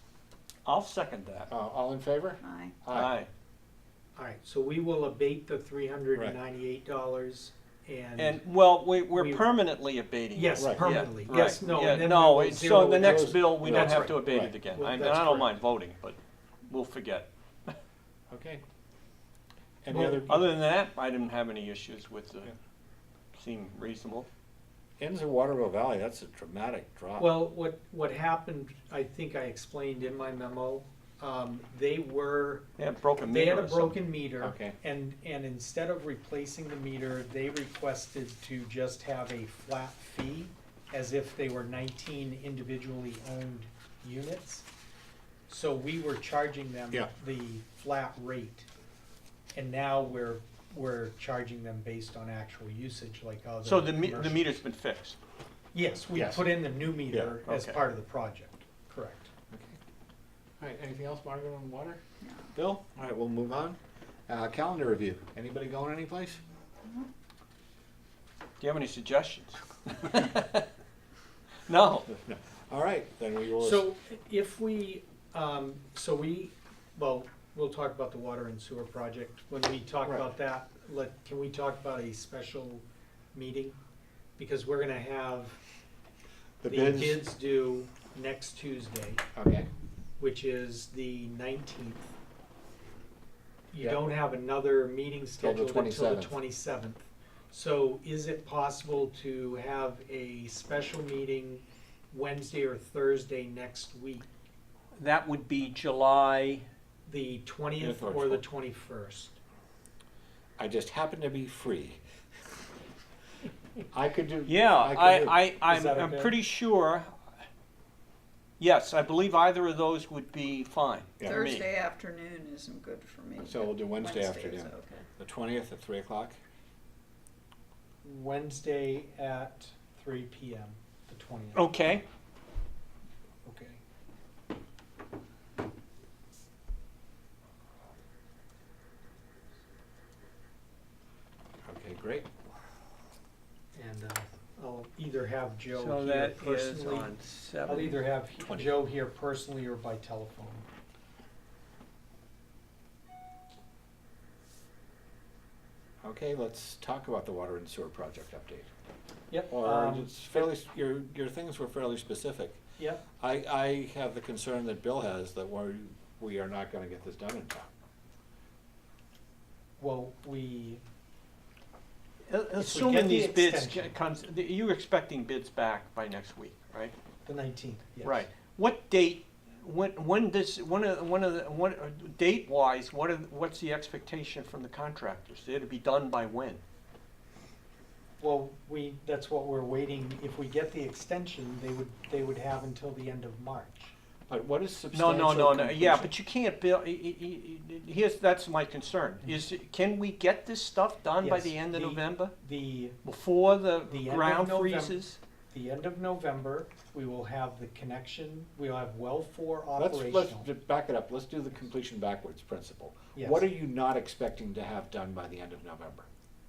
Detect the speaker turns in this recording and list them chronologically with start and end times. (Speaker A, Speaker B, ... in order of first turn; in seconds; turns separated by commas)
Speaker A: 0.6-1.5, Speaker B: 1.5-3.2, Speaker C: 2.4-2.7, Speaker A: 2.9-3.3, Speaker D: 4.2-8.4, Speaker A: 8.2-17.7, Speaker D: 9.1-9.4, Speaker D: 10.3-15.5, Speaker B: 10.6-10.9, Speaker B: 13.0-14.6, Speaker B: 18.3-18.6, Speaker B: 19.8-20.5, Speaker D: 19.9-20.2, Speaker A: 20.2-22.5, Speaker A: 23.3-24.3, Speaker B: 25.0-27.4, Speaker D: 27.2-32.7, Speaker A: 32.8-34.0, Speaker D: 33.2-44.7, Speaker B: 34.4-34.8, Speaker D: 45.5-48.7, Speaker D: 49.5-54.5, Speaker A: 53.6-55.2, Speaker D: 55.7-59.3, Speaker B: 56.1-56.6, Speaker B: 57.1-57.4, Speaker A: 57.5-57.8, Speaker B: 59.5-59.8, Speaker B: 60.6-62.0, Speaker C: 62.2-62.5, Speaker B: 62.5-66.4, Speaker A: 68.6-70.7, Speaker A: 71.7-72.1, Speaker B: 72.1-73.9, Speaker D: 73.6-83.8, Speaker D: 84.4-85.6, Speaker B: 86.6-87.2, Speaker D: 86.6-89.2, Speaker B: 89.3-89.7, Speaker D: 90.2-92.1, Speaker D: 93.7-104.3, Speaker B: 95.4-96.3, Speaker A: 105.0-106.7, Speaker D: 107.0-109.4, Speaker B: 107.8-108.4, Speaker B: 110.6-112.0, Speaker B: 113.9-115.4, Speaker A: 114.5-117.2, Speaker D: 115.6-116.3, Speaker A: 118.6-121.7, Speaker B: 121.2-121.5, Speaker C: 121.2-125.0, Speaker B: 123.4-126.4, Speaker D: 128.0-132.0, Speaker A: 131.5-132.0, Speaker D: 133.4-133.8, Speaker B: 141.7-142.3, Speaker D: 143.7-150.7, Speaker A: 145.7-148.0, Speaker B: 148.4-148.8, Speaker B: 156.0-158.7, Speaker D: 159.3-160.5, Speaker B: 159.5-162.6, Speaker D: 162.8-163.0, Speaker B: 163.2-167.7, Speaker D: 169.8-170.8, Speaker A: 172.3-176.9, Speaker D: 172.6-173.9, Speaker D: 177.2-178.3, Speaker A: 178.0-186.6, Speaker D: 188.2-193.9, Speaker B: 194.3-196.1, Speaker A: 194.9-202.3, Speaker D: 201.2-203.0, Speaker A: 203.0-205.2, Speaker D: 203.9-205.0, Speaker D: 205.5-210.5, Speaker B: 209.8-216.1, Speaker D: 213.1-213.5